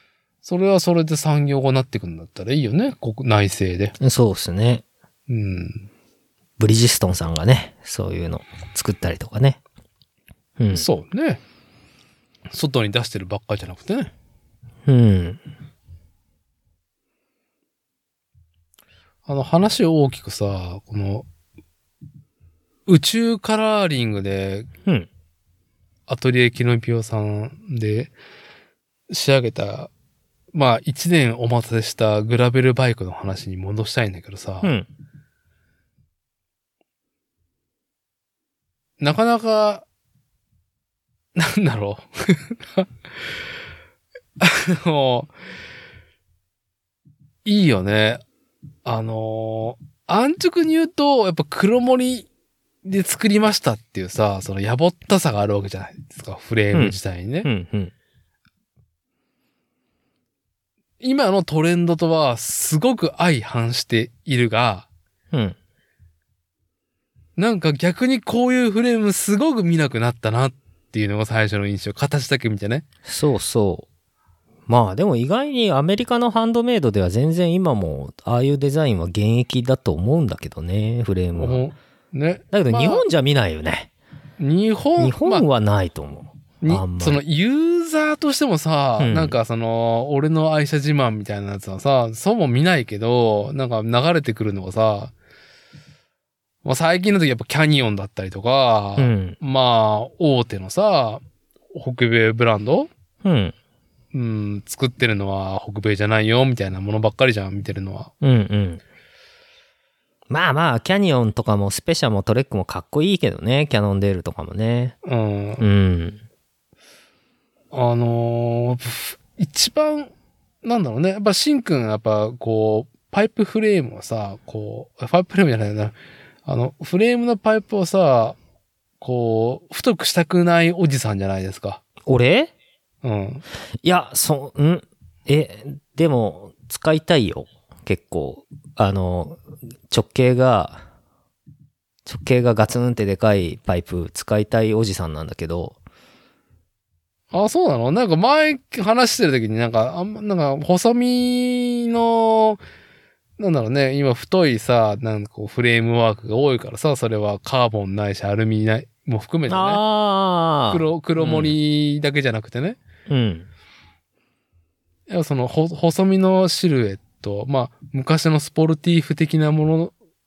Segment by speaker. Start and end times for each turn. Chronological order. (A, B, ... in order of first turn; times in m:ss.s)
0:00.4-0:03.9 A
0:04.0-0:04.8 B
0:05.3-0:05.9 A
0:06.6-0:09.6 B
0:10.6-0:10.8 B
0:10.7-0:11.4 A
0:12.5-0:14.1 A
0:14.8-0:15.4 B
0:19.3-0:21.2 A
0:22.9-0:24.7 A
0:26.1-0:28.1 A
0:29.1-0:29.9 A
0:30.5-0:34.7 A
0:34.6-0:34.9 B
0:39.0-0:39.8 A
0:41.4-0:42.9 A
0:44.4-0:45.3 A
0:47.4-0:48.2 A
0:48.8-0:52.3 A
0:52.8-0:57.5 A
0:56.7-0:57.9 B
1:01.0-1:04.9 A
1:07.4-1:12.8 A
1:13.1-1:13.8 B
1:14.7-1:21.6 B
1:21.4-1:23.0 A
1:22.5-1:23.9 B
1:24.4-1:25.4 A
1:25.0-1:27.2 B
1:26.6-1:35.1 A
1:29.0-1:29.4 B
1:36.6-1:42.9 A
1:39.0-1:39.4 B
1:43.2-1:43.5 B
1:44.1-1:48.1 A
1:48.2-1:48.8 B
1:50.3-1:54.9 B
1:55.0-1:55.6 A
1:55.6-1:56.2 B
1:57.7-2:00.1 A
2:00.6-2:05.9 A
2:06.4-2:08.4 A
2:09.0-2:11.8 A
2:12.1-2:12.5 B
2:13.0-2:13.4 A
2:13.8-2:19.4 B
2:19.9-2:20.8 B
2:22.1-2:25.8 B
2:27.3-2:32.6 A
2:33.4-2:39.8 A
2:39.5-2:41.6 B
2:40.7-2:42.8 A
2:43.1-2:43.5 B
2:45.1-2:49.9 A